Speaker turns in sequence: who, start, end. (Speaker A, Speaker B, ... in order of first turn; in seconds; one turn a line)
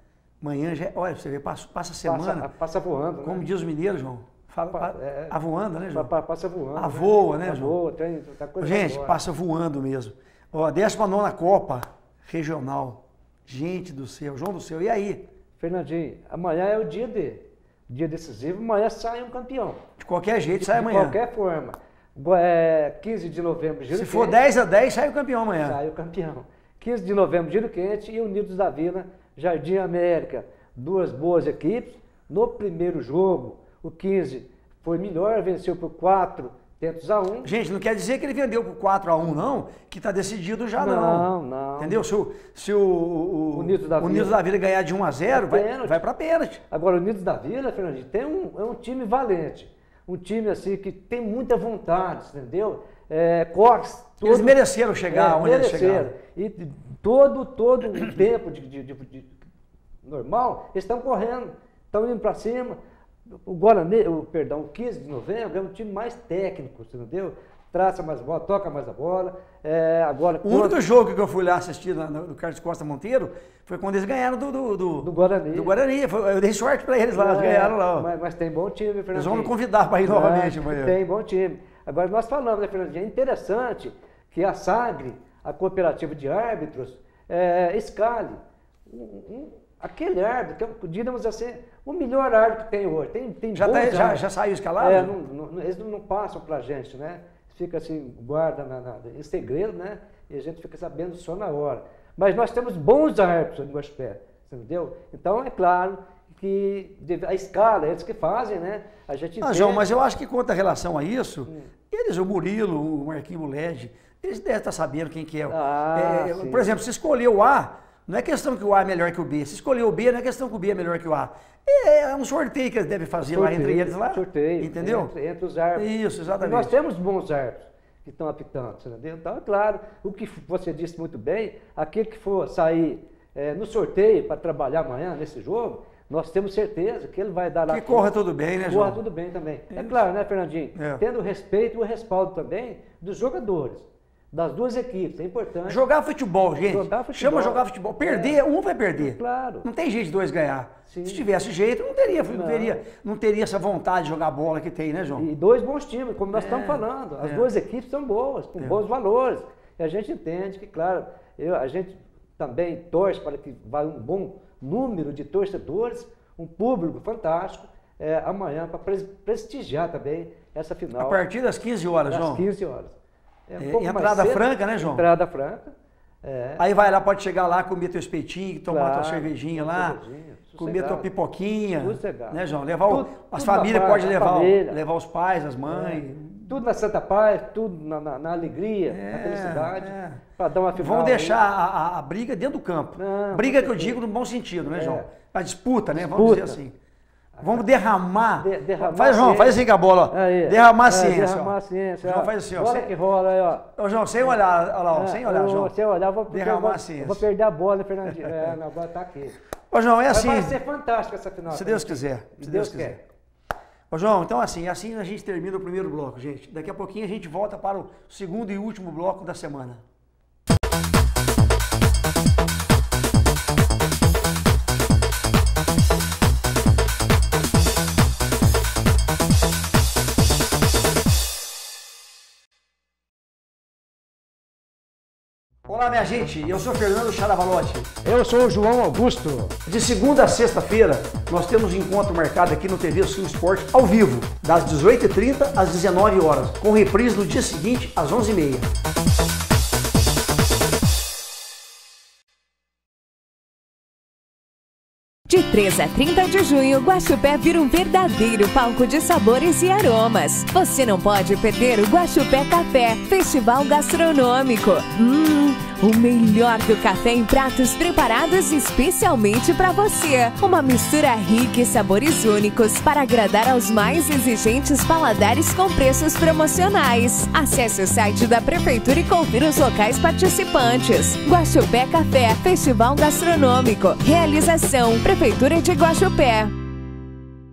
Speaker A: 0.4-2.5
Speaker B: 2.0-3.5
Speaker A: 3.2-6.1
Speaker B: 4.7-5.4
Speaker B: 5.9-9.2
Speaker A: 6.8-7.8
Speaker A: 8.6-15.2
Speaker B: 15.6-19.8
Speaker A: 20.0-21.2
Speaker B: 20.5-24.4
Speaker A: 23.9-25.8
Speaker B: 25.6-37.5
Speaker A: 37.4-46.6
Speaker B: 40.8-42.0
Speaker B: 43.5-44.4
Speaker B: 45.3-46.0
Speaker B: 46.7-54.5
Speaker A: 54.2-56.1
Speaker B: 55.1-59.3
Speaker B: 60.0-62.8
Speaker B: 63.4-70.8
Speaker A: 70.4-78.1
Speaker B: 75.0-75.8
Speaker B: 77.1-94.2
Speaker A: 79.1-81.0
Speaker A: 93.5-95.1
Speaker B: 94.8-109.8
Speaker A: 109.4-125.1
Speaker B: 115.5-116.7
Speaker B: 123.3-138.1
Speaker A: 125.8-126.8
Speaker A: 137.7-139.0
Speaker B: 138.6-145.8
Speaker A: 139.7-140.0
Speaker A: 140.8-141.0
Speaker A: 145.7-155.3
Speaker B: 146.7-148.4
Speaker B: 149.0-149.7
Speaker B: 150.9-151.2
Speaker B: 152.2-152.8
Speaker B: 155.2-171.2
Speaker A: 156.3-157.5
Speaker A: 171.0-172.4
Speaker B: 172.1-172.9
Speaker B: 173.5-176.6
Speaker A: 173.6-175.0
Speaker A: 176.6-180.0
Speaker B: 178.7-181.1
Speaker A: 180.6-186.6
Speaker B: 181.7-184.8
Speaker B: 185.7-191.4
Speaker A: 188.9-196.8
Speaker B: 192.9-194.0
Speaker B: 194.7-195.1
Speaker B: 195.9-196.6
Speaker B: 197.4-197.6
Speaker A: 197.4-202.9
Speaker B: 198.4-203.7
Speaker A: 203.8-205.8
Speaker B: 204.9-209.4
Speaker A: 206.3-207.2
Speaker A: 208.2-208.5
Speaker A: 209.7-210.6
Speaker B: 210.1-213.0
Speaker A: 211.5-213.0
Speaker A: 213.9-219.8
Speaker A: 235.7-237.9
Speaker B: 238.0-239.6
Speaker A: 239.7-248.7
Speaker C: 255.3-286.5